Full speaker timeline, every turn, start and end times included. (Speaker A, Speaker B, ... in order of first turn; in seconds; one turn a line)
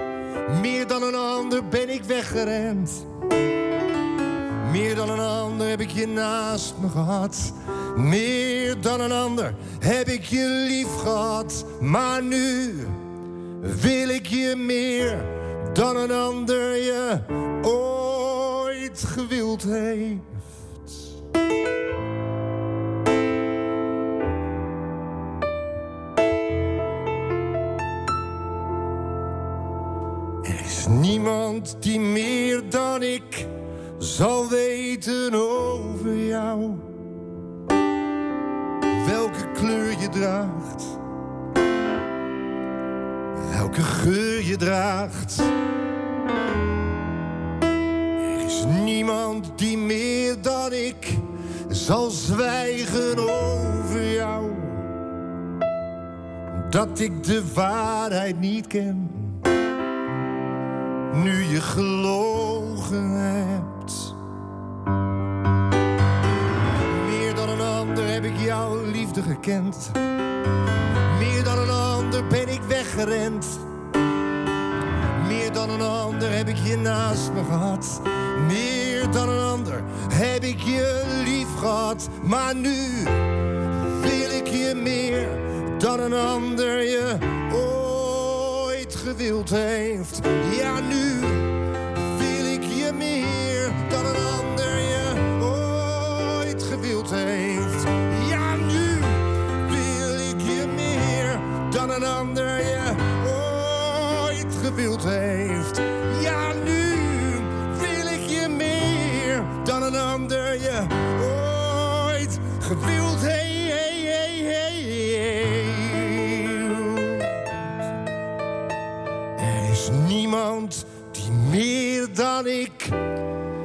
Speaker A: 0.5-3.1
Speaker A: 4.6-13.0
Speaker A: 13.6-21.1
Speaker A: 30.4-37.0
Speaker A: 38.9-41.0
Speaker A: 43.4-45.5
Speaker A: 48.2-54.9
Speaker A: 56.5-59.4
Speaker A: 61.1-64.2
Speaker A: 66.8-70.0
Speaker A: 71.1-73.7
Speaker A: 75.2-83.2
Speaker A: 83.8-117.4
Speaker A: 119.4-123.0